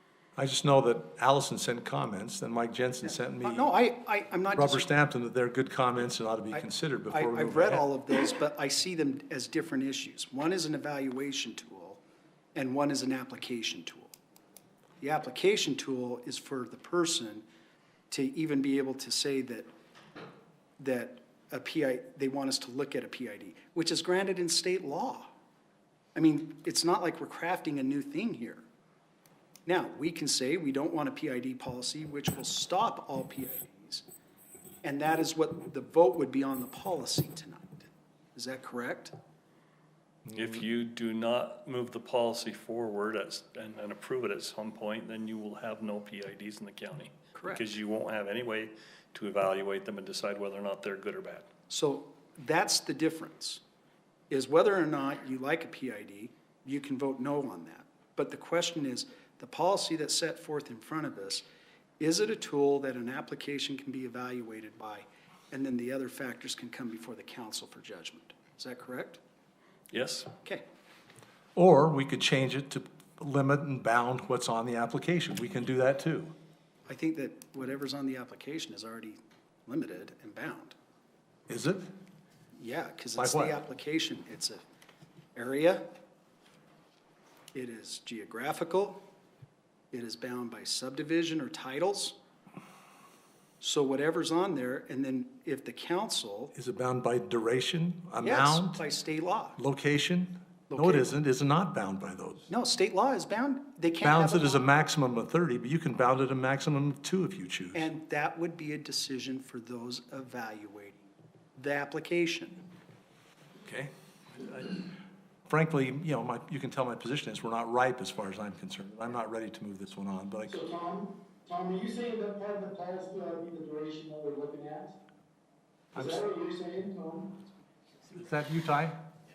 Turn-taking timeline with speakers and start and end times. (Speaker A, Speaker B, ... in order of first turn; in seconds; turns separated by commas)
Speaker A: 0.3-3.7, Speaker B: 3.0-4.9, Speaker A: 4.5-7.9, Speaker B: 6.5-12.0, Speaker B: 12.5-14.1, Speaker B: 15.0-17.4, Speaker B: 18.1-19.7, Speaker B: 20.8-25.3, Speaker B: 26.1-28.6, Speaker B: 29.6-34.0, Speaker B: 34.8-39.1, Speaker C: 40.3-51.5, Speaker B: 47.3-47.6, Speaker B: 51.7-53.6, Speaker B: 54.3-61.4, Speaker B: 62.0-69.2, Speaker C: 69.9-70.3, Speaker A: 71.5-76.3, Speaker B: 76.9-80.7, Speaker A: 81.5-81.8, Speaker B: 82.6-84.6, Speaker A: 83.2-83.6, Speaker B: 85.3-85.8, Speaker B: 87.5-89.0, Speaker B: 89.9-92.2, Speaker B: 93.6-96.5, Speaker A: 96.5-98.8, Speaker B: 98.2-99.6, Speaker A: 99.6-102.5, Speaker B: 100.7-101.1, Speaker B: 102.5-104.6, Speaker A: 104.0-107.8, Speaker B: 107.7-112.6, Speaker A: 113.6-114.8, Speaker A: 115.5-120.6, Speaker D: 120.5-124.9, Speaker A: 125.9-126.2, Speaker D: 125.9-127.4, Speaker A: 128.1-129.0